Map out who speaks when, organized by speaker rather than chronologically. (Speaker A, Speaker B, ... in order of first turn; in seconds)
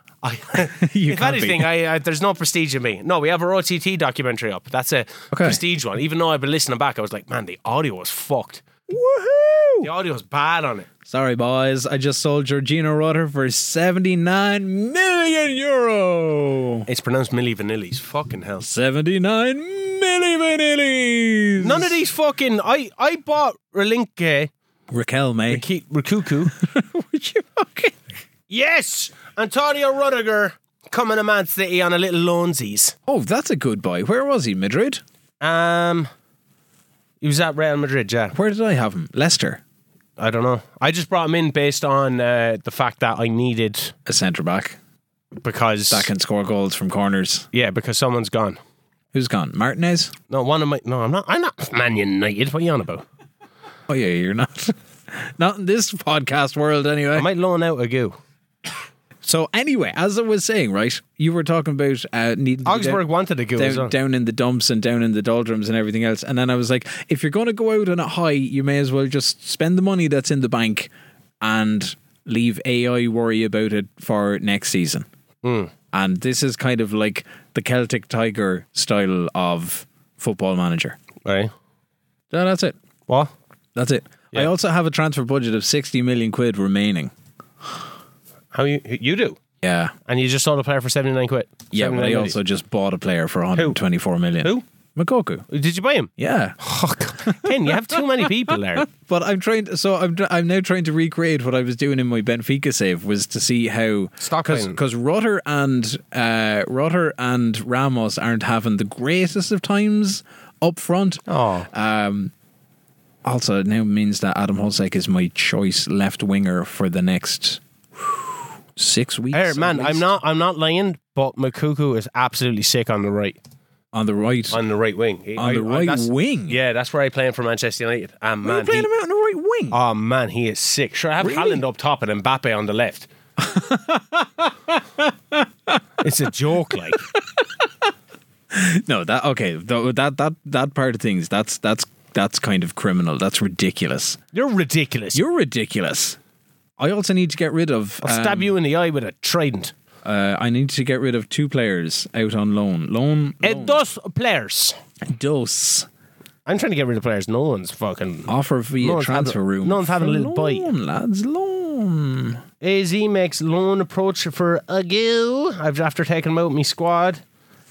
Speaker A: 0.2-8.6, 9.8-10.9, 16.9-18.7, 21.6-24.5, 25.5-26.5, 28.5-32.9, 35.4-36.1, 37.2-38.3, 40.2-43.9, 45.4-46.1, 47.5-48.6, 50.3-53.0, 57.1-58.2, 62.6-63.9, 75.4-75.7, 81.2-81.5, 83.1-83.3, 88.5-89.4, 90.0-92.4, 95.5-96.1, 96.6-98.9, 104.2-104.8, 111.3-111.7, 119.3-123.4, 124.5-128.9, 129.7-133.1, 136.0-137.0, 144.3-145.2, 148.0-149.7, 153.4-154.8, 156.4-160.7, 162.6-167.2
Speaker B: 0.6-1.7, 5.3-5.6, 8.9-9.9, 11.1-16.9, 18.6-21.9, 24.9-25.6, 26.5-28.0, 33.1-35.0, 38.3-39.6, 44.0-44.8, 45.9-47.5, 49.1-50.1, 53.9-57.3, 59.2-63.0, 63.5-70.9, 71.4-75.1, 75.9-81.0, 82.3-82.7, 83.7-87.1, 89.6-89.9, 91.7-95.5, 96.2-96.6, 97.2-112.3, 113.2-120.1, 123.9-124.6, 125.4-126.6, 128.4-129.8, 131.2-131.6, 133.4-135.8, 136.9-137.9, 138.5-144.2, 145.1-146.2, 146.8-148.5, 150.0-153.8, 155.0-155.9, 158.3-162.4